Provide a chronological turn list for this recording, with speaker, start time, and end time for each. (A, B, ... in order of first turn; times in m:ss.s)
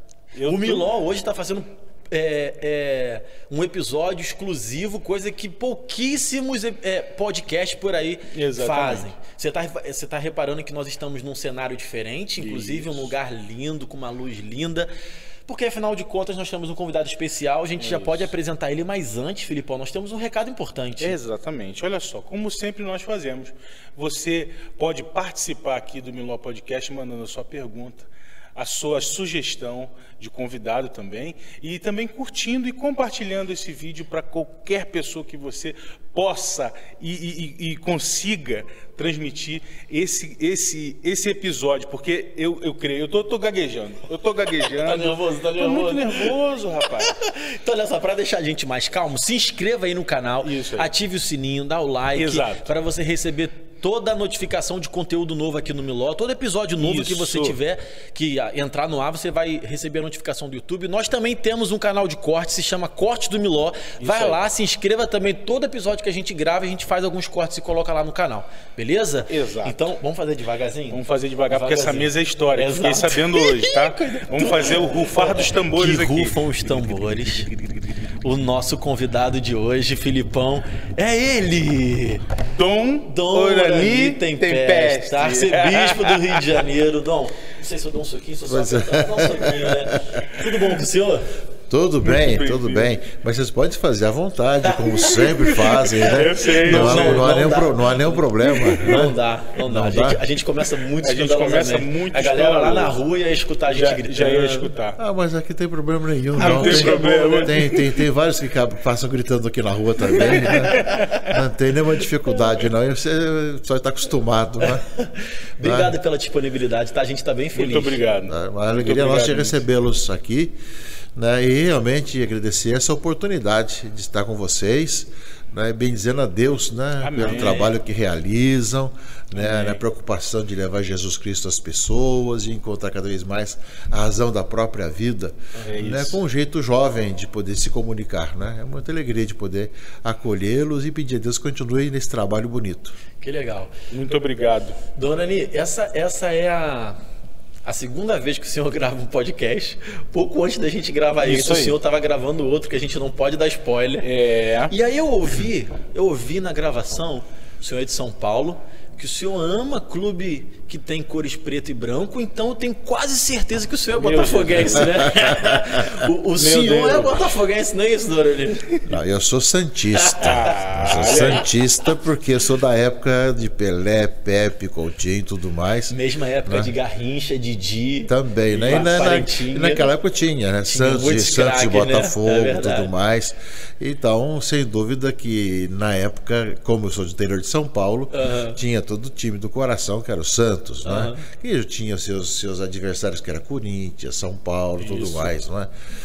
0:00.4-0:00.9 A
0:00.4-0:14.9 B
0:08.3-0:09.1 A
0:12.4-0:13.1 A
0:15.5-0:21.2 B
0:17.8-0:18.3 A
0:21.0-0:47.1 A
0:44.8-1:17.5 B
0:50.4-0:50.9 A
0:52.1-0:52.7 A
0:56.8-0:57.6 A
1:04.0-1:04.4 A
1:09.3-1:09.9 A
1:10.9-1:16.7 A
1:18.2-1:22.2 B
1:22.5-1:26.6 A
1:23.0-1:31.3 B
1:28.5-1:30.3 C
1:31.7-1:40.2 C
1:32.0-1:33.0 A
1:34.7-1:35.5 B
1:35.6-1:37.3 A
1:36.6-1:44.7 B
1:41.0-1:43.0 A
1:43.7-1:45.0 A
1:45.0-1:54.8 C
1:46.4-1:47.7 B
1:46.4-1:47.8 A
1:50.2-1:51.3 A
1:50.5-1:51.2 B
1:54.9-1:58.0 B
1:55.6-1:56.0 C
1:57.6-1:59.6 A
1:58.3-2:00.6 C
2:01.2-2:23.0 C
2:07.0-2:07.7 A
2:09.4-2:09.8 A
2:15.7-2:16.2 A
2:23.2-2:23.7 B
2:23.9-2:24.8 A
2:25.0-2:27.0 B
2:27.6-2:34.1 B
2:31.2-2:31.8 A
2:34.0-2:34.7 A
2:34.7-2:48.9 B
2:44.0-2:45.1 A
2:44.8-2:46.0 C
2:46.4-2:47.2 A
2:48.9-2:56.0 C
2:50.0-2:51.4 B
2:50.2-2:51.5 A
2:55.9-2:59.9 B
2:56.5-2:56.7 C
2:58.1-3:15.7 C
2:58.5-2:59.0 A
3:00.7-3:02.9 B
3:08.1-3:08.6 B
3:10.8-3:11.2 B
3:14.8-3:15.3 B